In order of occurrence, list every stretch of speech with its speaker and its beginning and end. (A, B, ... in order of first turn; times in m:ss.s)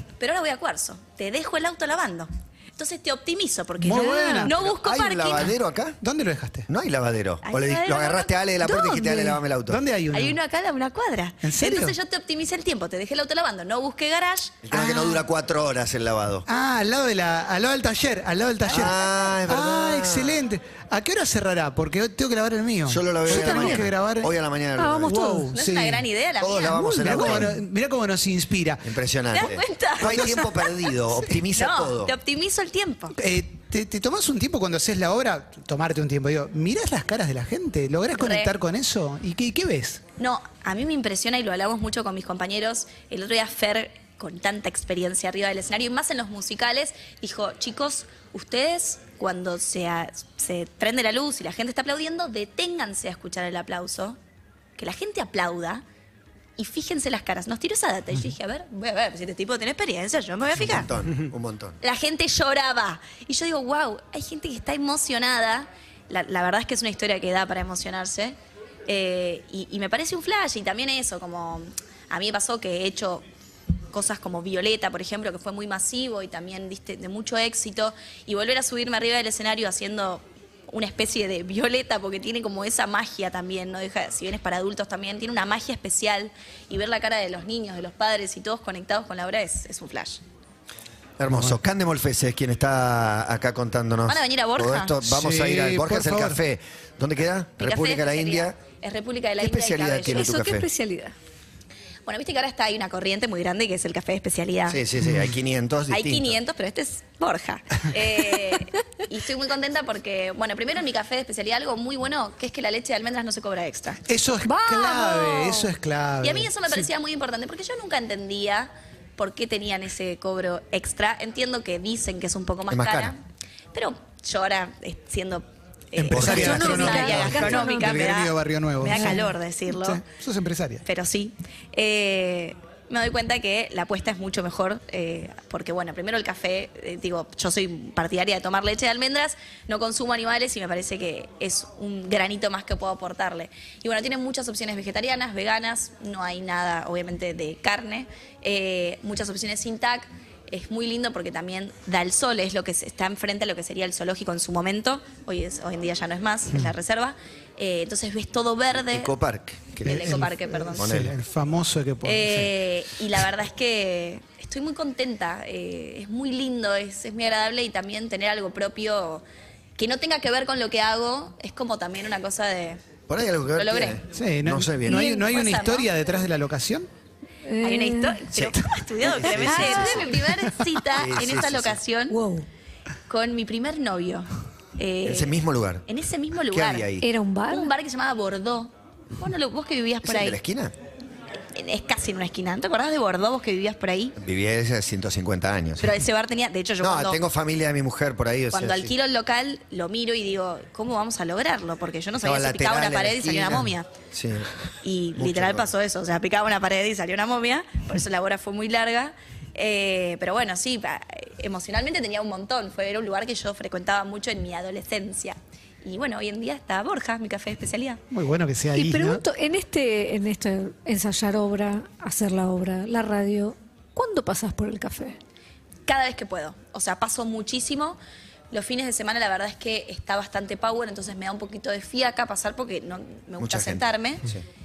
0:00.2-0:05.5 A
0:03.8-0:04.6 B
0:03.9-0:04.5 C
0:04.5-0:06.0 D
0:06.0-0:06.7 B
0:06.7-0:09.8 D
0:07.4-0:08.5 A
0:08.6-0:09.2 C
0:09.7-0:10.4 B
0:10.1-0:14.7 A
0:11.4-0:12.0 B
0:14.6-0:16.5 D
0:14.7-0:15.2 B
0:16.5-0:24.3 B
0:18.7-0:20.4 D
0:22.9-0:25.3 D
0:23.3-0:23.8 C
0:24.8-0:25.5 C
0:25.1-0:26.1 B
0:25.5-0:26.8 A
0:26.4-0:27.6 D
0:26.8-0:27.3 C
0:27.0-0:28.9 B
0:28.8-0:32.2 D
0:29.3-0:30.8 A
0:30.0-0:30.4 B
0:31.5-0:33.2 A
0:33.2-0:40.0 B
0:38.1-0:38.5 A
0:40.2-0:54.2 A
0:54.8-0:55.8 A
0:56.6-1:00.9 A
1:00.5-1:01.8 D
1:01.8-1:08.4 A
1:08.9-1:13.2 A
1:13.9-1:30.2 A
1:31.2-1:38.6 D
1:34.1-1:35.0 A
1:35.0-1:36.4 B
1:37.6-1:40.3 A
1:39.4-1:40.7 D
1:40.1-1:41.1 C
1:42.1-1:44.8 A
1:44.7-1:46.4 D
1:45.9-1:55.7 A
1:54.1-1:56.9 B
1:56.2-2:03.2 A
2:02.7-2:03.1 D
2:03.7-2:10.0 A
2:06.0-2:10.8 B
2:06.0-2:07.5 D
2:06.2-2:08.0 C
2:10.8-2:39.1 A
2:38.9-2:41.2 D
2:39.8-2:40.9 A
2:39.9-2:42.5 B
2:42.0-2:49.2 A
2:49.8-2:52.8 A
2:53.1-2:55.1 D
2:53.6-2:54.0 A
2:54.1-2:56.9 B
2:54.8-2:55.9 A
2:57.5-2:58.2 C
2:57.6-3:02.2 A
2:58.3-3:00.2 D
2:59.3-3:00.0 C
3:00.9-3:01.8 D
3:02.1-3:02.5 C
3:03.1-3:06.9 A
3:05.0-3:05.9 D
3:06.5-3:07.1 D
3:07.0-3:07.7 C
3:07.5-3:10.4 A
3:10.0-3:10.7 D
3:11.5-3:14.2 A
3:14.2-3:15.9 D
3:15.8-3:17.2 A
3:16.8-3:18.9 D
3:18.5-3:23.9 A
3:22.2-3:24.5 D
3:24.8-3:38.0 A
3:25.2-3:25.7 D
3:38.1-3:39.2 B
3:38.7-3:45.2 C
3:45.9-3:48.0 A
3:48.5-3:54.2 A
3:53.4-3:54.4 D